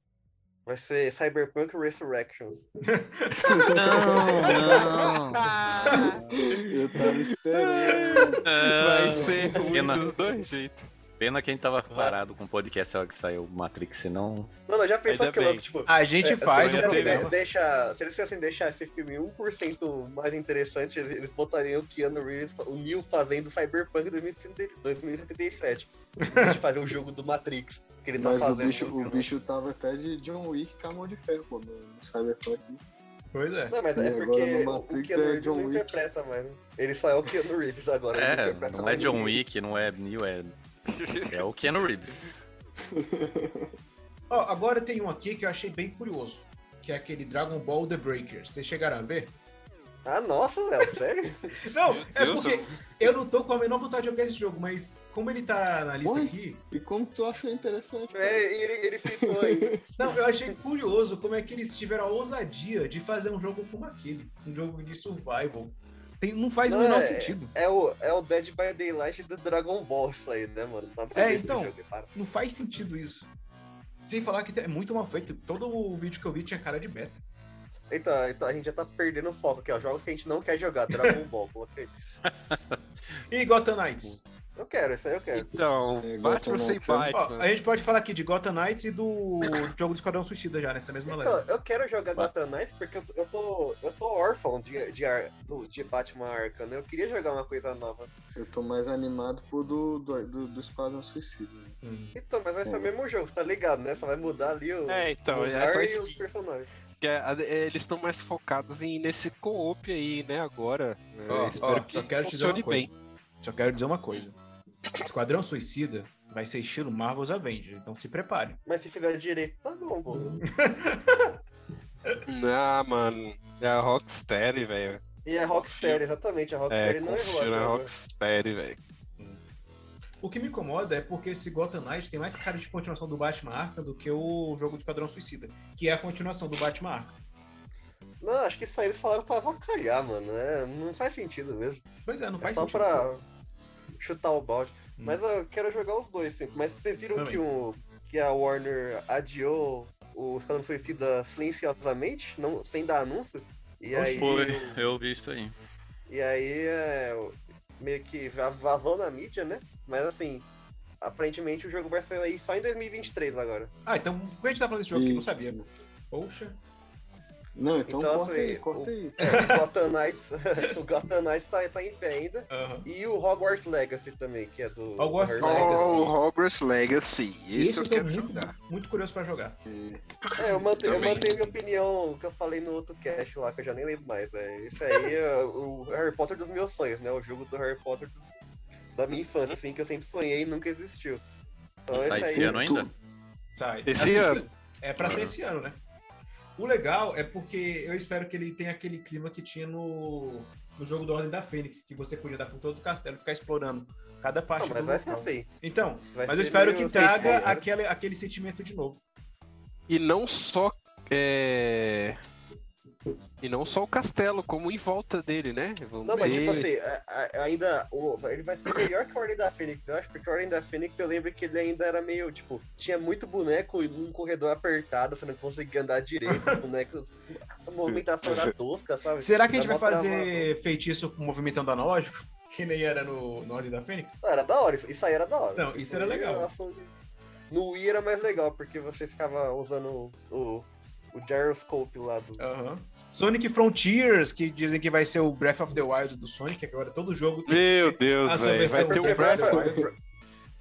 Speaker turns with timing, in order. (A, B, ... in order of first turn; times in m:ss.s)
0:00.6-0:02.7 A
0:02.8-0:06.2 B
0:03.4-0:03.7 C
0:03.7-0:06.0 D
0:04.2-0:04.8 A
0:05.7-0:10.9 E
0:06.1-0:08.4 C
0:08.4-0:10.1 D
0:08.8-0:09.6 B
0:09.1-0:09.4 C
0:09.7-0:09.9 A
0:11.2-0:14.5 D
0:11.9-0:12.2 A
0:14.7-0:29.2 A
0:15.1-0:15.6 E
0:15.9-0:17.3 B
0:16.5-0:17.3 E
0:26.2-0:26.6 B
0:28.2-0:32.8 C
0:28.8-0:29.3 D
0:33.3-0:33.8 B
0:33.7-0:39.4 A
0:33.9-0:36.0 C
0:38.1-0:40.6 D
0:40.8-0:41.4 E
0:41.2-0:42.4 D
0:42.9-0:43.7 C
0:44.3-0:49.3 B
0:50.0-0:51.7 A
0:51.6-0:56.6 B
0:51.8-0:53.1 E
0:56.0-0:58.5 C
0:58.1-0:59.8 A
0:59.0-0:59.8 C
1:00.0-1:07.5 B
1:06.7-1:12.1 A
1:11.1-1:13.3 B
1:14.0-1:17.2 B
1:17.9-1:21.9 A
1:20.9-1:21.2 B
1:22.5-1:22.8 D
1:23.3-1:24.2 B
1:24.6-1:25.5 A
1:25.3-1:27.5 E
1:26.0-1:27.1 C
1:27.1-1:31.4 B
1:31.0-1:38.1 A
1:38.4-1:41.8 C
1:41.8-1:42.2 B
1:42.1-1:46.7 A
1:42.6-1:42.9 C
1:44.9-1:46.2 E
1:47.0-1:52.9 E
1:51.3-1:54.4 B
1:55.0-1:58.6 B
1:58.6-2:00.4 A
2:00.4-2:01.3 B
2:02.3-2:06.0 E
2:05.2-2:07.9 A
2:06.7-2:08.8 E
2:10.2-2:17.1 B
2:18.2-2:21.8 A
2:22.0-2:23.0 B
2:22.4-2:23.2 A
2:24.0-2:34.8 A
2:25.0-2:25.2 B
2:27.1-2:27.4 B
2:33.9-2:34.2 B
2:34.0-2:35.5 D
2:36.1-2:40.5 A
2:41.0-2:43.7 A
2:43.8-2:46.6 B
2:44.9-2:45.6 C
2:47.6-2:49.2 C
2:47.9-2:56.1 A
2:49.2-2:49.6 B
2:52.5-2:52.9 B
2:55.0-2:56.0 B
2:55.4-2:58.5 E
2:57.5-2:59.6 B
2:59.7-3:00.0 C
3:00.4-3:08.2 A
3:00.7-3:01.5 B
3:00.8-3:01.2 E
3:08.9-3:11.2 A
3:11.8-3:12.6 A
3:11.9-3:12.9 D
3:11.9-3:12.9 C
3:13.6-3:15.8 B
3:13.8-3:14.4 E
3:15.0-3:15.3 D
3:16.6-3:29.0 B
3:24.6-3:25.5 A
3:26.1-3:27.6 A
3:29.9-3:32.2 E
3:33.4-3:36.7 E
3:36.0-3:50.5 A
3:36.2-3:36.6 B
3:46.3-3:46.6 B
3:47.9-3:48.5 E
3:49.2-3:54.2 B
3:54.2-3:56.9 A
3:55.6-3:56.5 B
3:57.5-4:02.4 A
4:02.4-4:09.9 B
4:07.5-4:09.4 E
4:08.7-4:10.0 A
4:09.5-4:09.8 C